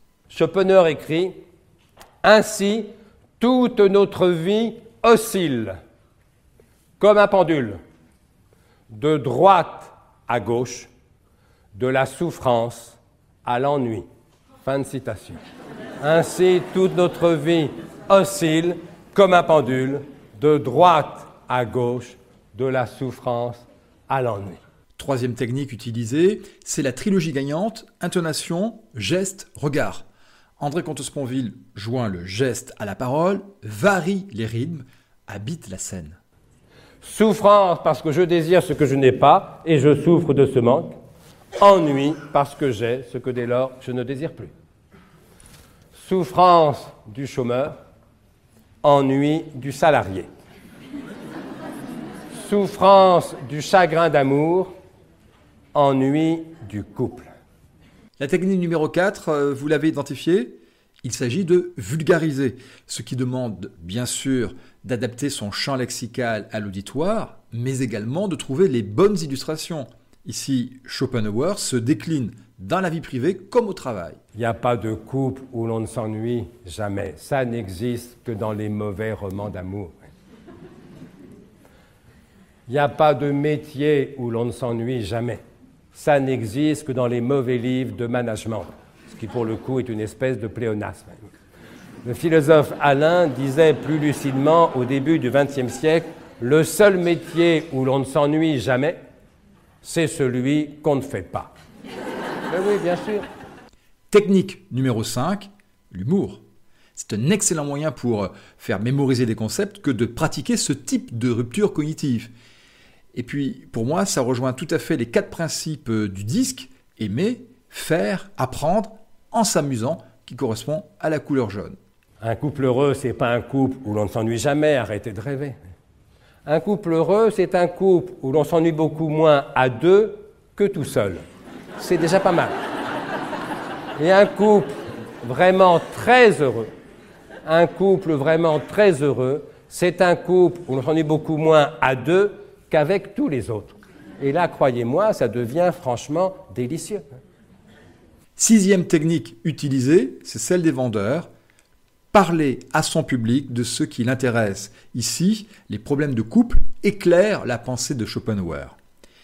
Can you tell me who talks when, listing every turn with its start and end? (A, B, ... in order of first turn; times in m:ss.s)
0:00.3-0:01.3 A
0:02.2-0:05.8 A
0:07.0-0:07.8 A
0:08.9-0:10.9 A
0:11.7-0:14.0 A
0:14.6-0:15.4 A
0:16.0-0:24.6 A
0:25.0-0:30.0 B
0:30.6-0:36.2 B
0:37.0-0:40.9 A
0:41.6-0:44.5 A
0:46.0-0:47.7 A
0:48.8-0:50.3 A
0:52.3-0:54.7 A
0:55.7-0:57.3 A
0:58.2-1:14.2 B
1:14.3-1:20.0 A
1:22.7-1:25.4 A
1:25.9-1:31.3 A
1:32.0-1:39.0 A
1:39.8-1:41.5 A
1:42.5-1:43.2 A
1:44.1-1:46.4 B
1:47.0-1:52.3 B
1:53.1-2:01.8 B
2:02.2-2:05.6 A
2:06.4-2:11.2 A
2:11.8-2:12.5 A
2:14.0-2:16.7 A
2:17.4-2:27.0 A
2:28.4-2:31.3 B
2:32.1-2:38.8 B